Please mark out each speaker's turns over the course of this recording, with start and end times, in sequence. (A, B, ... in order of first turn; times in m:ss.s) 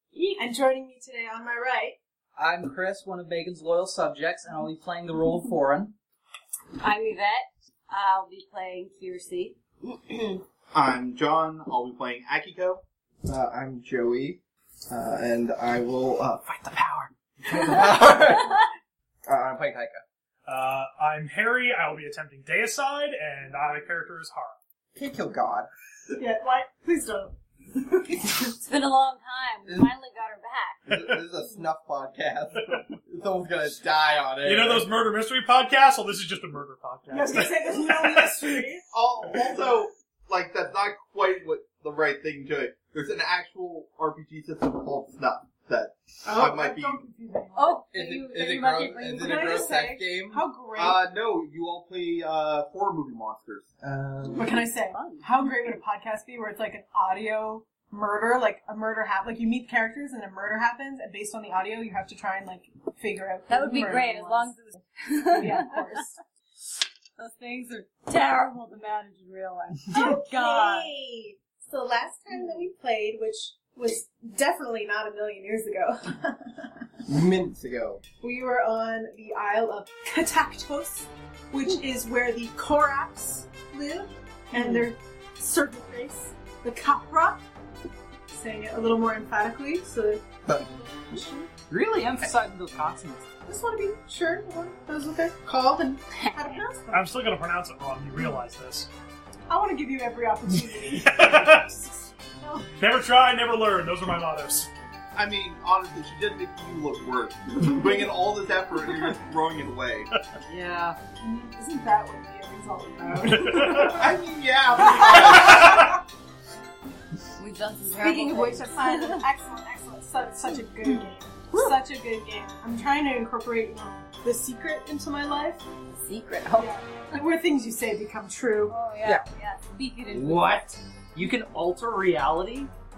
0:00.1-0:00.4 A
0:00.4-0:02.0 B
0:02.4-0:05.9 C
0:06.8-0:10.4 A
0:10.7-0:12.8 D
0:13.2-0:18.6 E
0:19.2-0:20.0 E
0:20.4-0:24.6 F
0:24.9-0:25.7 E
0:26.2-0:27.4 B
0:27.9-0:28.3 B
0:28.6-0:30.9 A
0:30.9-0:34.9 E
0:34.4-0:38.5 F
0:37.1-0:38.8 B
0:38.9-0:47.0 D
0:46.2-0:47.8 B
0:47.6-0:49.8 A
0:47.9-0:50.4 E
0:49.2-0:51.0 B
0:50.8-0:53.7 D
0:53.8-0:54.6 E
0:54.4-1:04.5 B
0:54.9-0:55.2 A
1:03.5-1:06.1 A
1:05.3-1:06.1 B
1:07.2-1:10.9 A
1:09.9-1:16.7 B
1:17.1-1:18.0 E
1:18.2-1:27.4 B
1:28.3-1:31.5 B
1:31.7-1:33.3 C
1:33.5-1:37.1 B
1:36.2-1:36.5 A
1:36.9-1:38.9 F
1:39.5-1:42.7 B
1:40.9-1:41.7 F
1:42.8-1:44.7 F
1:45.1-1:50.1 D
1:47.7-1:48.0 B
1:50.5-1:51.0 C
1:51.2-1:54.2 B
1:53.2-1:54.0 F
1:53.7-1:56.0 D
1:54.8-1:56.0 B
1:55.4-1:55.7 F
1:57.4-1:59.2 A
1:58.0-2:05.6 B
2:00.4-2:01.8 A
2:05.9-2:06.8 A
2:06.6-2:08.8 B
2:08.7-2:10.6 A
2:10.1-2:12.7 C